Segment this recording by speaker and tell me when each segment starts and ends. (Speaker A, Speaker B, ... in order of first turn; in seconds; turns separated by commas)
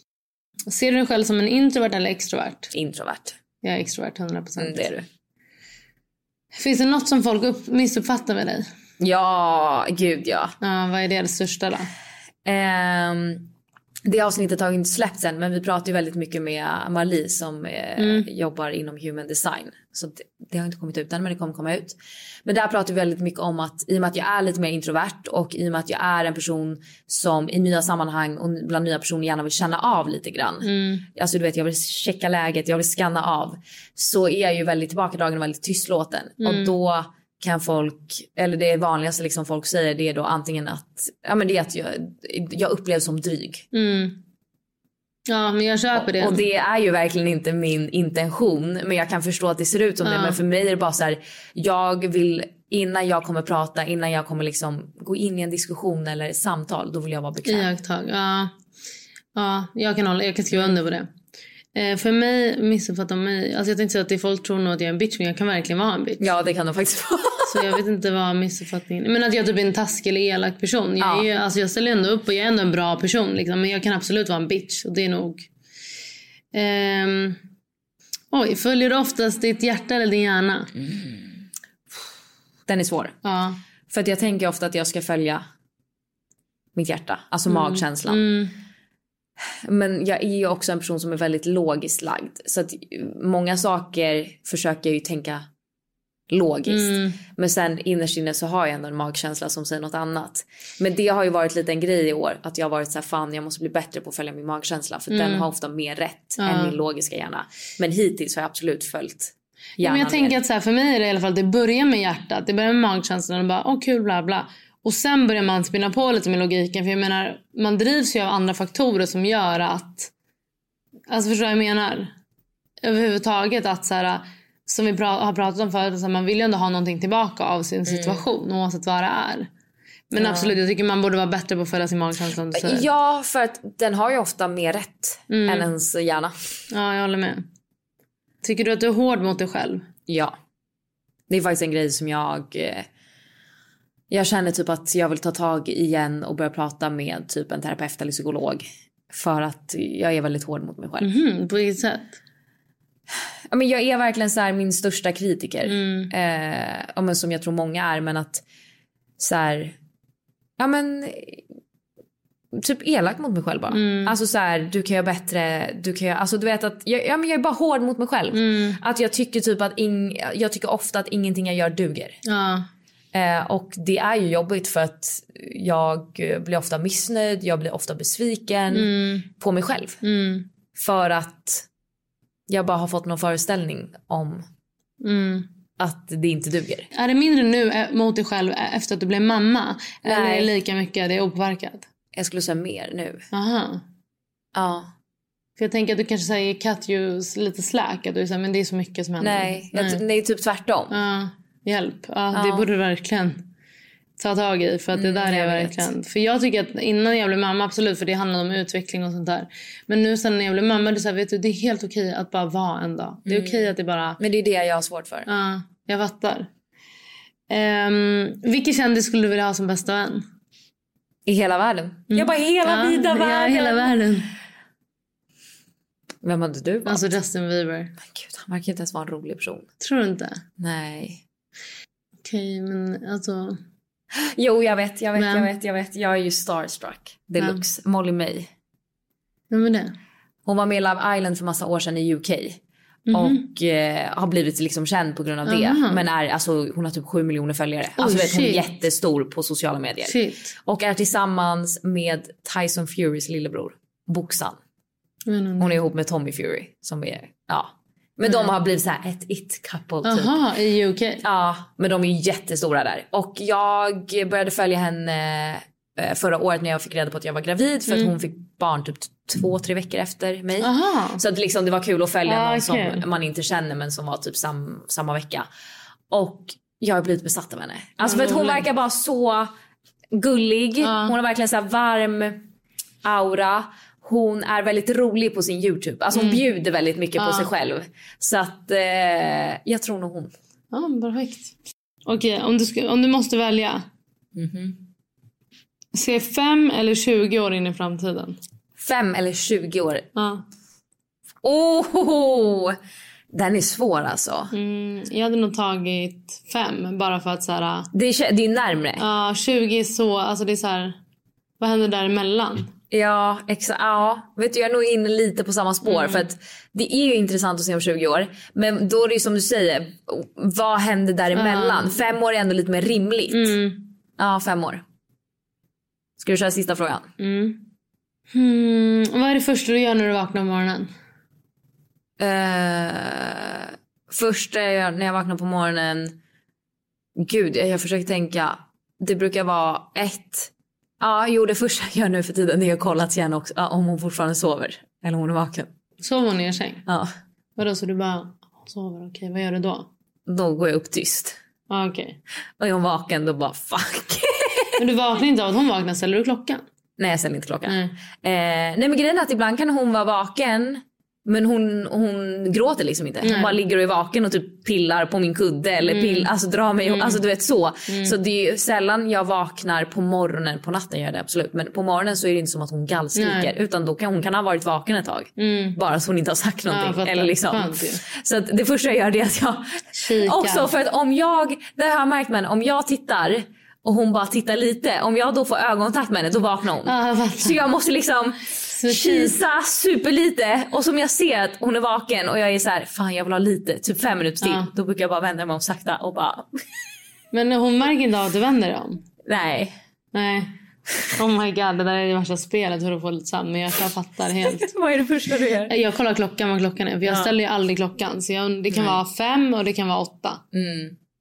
Speaker A: 0.7-2.7, Speaker B: 2.7-3.3, Speaker A: 3.6-4.9, Speaker B: 4.6-5.0, Speaker A: 6.5-8.6, Speaker B: 9.0-10.5, Speaker A: 10.6-11.9, Speaker B: 12.4-13.5, Speaker B: 14.1-43.6, Speaker A: 18.0-18.3, Speaker A: 30.6-31.0, Speaker A: 36.4-36.7, Speaker A: 43.7-44.2, Speaker A: 45.3-46.4, Speaker B: 46.0-57.7, Speaker A: 50.0-50.4, Speaker A: 57.4-58.5, Speaker A: 59.3-61.1, Speaker A: 61.7-66.2, Speaker B: 66.2-67.7, Speaker A: 67.5-75.5, Speaker B: 71.0-71.3, Speaker A: 76.5-77.4, Speaker A: 78.3-80.7, Speaker B: 82.7-83.1, Speaker A: 83.2-83.6, Speaker B: 83.9-85.4, Speaker B: 86.7-88.2, Speaker A: 87.5-88.5, Speaker B: 89.6-95.4, Speaker B: 96.3-110.3, Speaker A: 96.7-97.2, Speaker A: 105.1-105.5, Speaker A: 106.4-106.8, Speaker A: 109.8-120.1, Speaker A: 121.1-122.1, Speaker A: 122.8-129.5, Speaker B: 127.9-128.2, Speaker A: 130.1-132.8, Speaker B: 130.2-130.6, Speaker B: 132.5-136.3, Speaker A: 135.3-135.7, Speaker A: 136.7-137.4, Speaker A: 138.4-139.8, Speaker B: 140.1-140.3, Speaker B: 141.3-142.8, Speaker B: 144.1-151.1, Speaker A: 151.0-152.2, Speaker B: 153.5-158.4, Speaker A: 155.6-156.1, Speaker B: 159.2-159.8, Speaker B: 160.6-161.4, Speaker B: 162.5-172.2, Speaker A: 163.7-164.1, Speaker A: 168.3-168.8, Speaker A: 172.2-172.7, Speaker B: 173.1-180.0, Speaker A: 178.7-179.3, Speaker A: 180.0-180.5, Speaker B: 180.7-181.7, Speaker B: 182.5-184.4, Speaker A: 185.0-185.5, Speaker B: 185.8-186.9, Speaker A: 186.9-191.8, Speaker B: 190.0-190.5, Speaker B: 192.1-193.2, Speaker A: 193.3-193.8, Speaker B: 194.5-194.9, Speaker A: 195.6-200.0, Speaker B: 199.2-200.9, Speaker A: 200.9-203.4, Speaker B: 202.3-202.7, Speaker A: 204.2-214.2, Speaker B: 204.9-205.9, Speaker B: 213.2-215.3, Speaker A: 215.3-216.5, Speaker A: 217.5-220.2, Speaker B: 221.2-223.9, Speaker A: 222.1-224.3, Speaker B: 226.2-227.1, Speaker A: 226.8-227.9, Speaker B: 228.0-229.7, Speaker A: 229.8-230.4, Speaker B: 230.6-231.2, Speaker A: 232.2-233.6, Speaker B: 234.2-238.5, Speaker A: 235.2-235.5, Speaker A: 237.4-237.6, Speaker A: 239.5-239.9, Speaker B: 240.4-242.6, Speaker A: 243.1-243.4, Speaker B: 243.1-254.6, Speaker A: 245.4-246.0, Speaker A: 248.0-248.7, Speaker A: 250.0-250.5, Speaker A: 255.2-255.7, Speaker B: 255.6-260.4, Speaker A: 258.2-258.5, Speaker A: 260.0-261.2, Speaker B: 261.2-275.5, Speaker A: 267.9-268.1, Speaker A: 270.6-271.2, Speaker A: 272.2-273.1, Speaker B: 276.1-279.5, Speaker A: 278.0-278.6, Speaker B: 280.1-282.4, Speaker A: 280.8-281.1, Speaker B: 283.0-290.3, Speaker A: 286.1-286.4, Speaker A: 287.2-287.5, Speaker A: 290.7-291.5, Speaker A: 292.1-293.8, Speaker B: 294.4-294.8, Speaker A: 295.9-298.4, Speaker B: 298.8-300.1, Speaker A: 300.1-300.4, Speaker B: 301.4-302.8, Speaker B: 303.3-304.5, Speaker A: 304.5-307.9, Speaker B: 307.9-309.0, Speaker A: 309.0-310.9, Speaker A: 311.6-312.7, Speaker B: 312.9-323.5, Speaker A: 315.8-316.2, Speaker A: 321.3-322.0, Speaker A: 323.3-323.9, Speaker B: 324.2-324.8, Speaker B: 326.2-327.1, Speaker A: 327.2-327.6, Speaker A: 328.3-330.9, Speaker B: 332.2-336.1, Speaker B: 337.2-345.7, Speaker A: 346.0-346.8, Speaker A: 347.6-349.9, Speaker B: 350.3-351.4, Speaker A: 351.7-352.2, Speaker B: 352.6-354.7, Speaker A: 354.8-356.6, Speaker B: 357.0-379.6, Speaker A: 357.6-357.9, Speaker A: 363.2-363.6, Speaker A: 365.8-367.2, Speaker A: 367.9-368.1, Speaker A: 373.1-373.5, Speaker A: 375.4-375.8, Speaker A: 376.7-378.0, Speaker A: 379.9-380.7, Speaker B: 380.1-396.5, Speaker A: 386.8-387.6, Speaker A: 388.7-389.4, Speaker A: 394.4-394.7, Speaker A: 397.3-399.0, Speaker B: 399.2-399.7, Speaker A: 400.1-400.5, Speaker A: 401.1-404.7, Speaker B: 404.4-405.7, Speaker A: 405.7-410.4, Speaker B: 407.0-407.3, Speaker B: 408.7-409.0, Speaker B: 410.5-410.9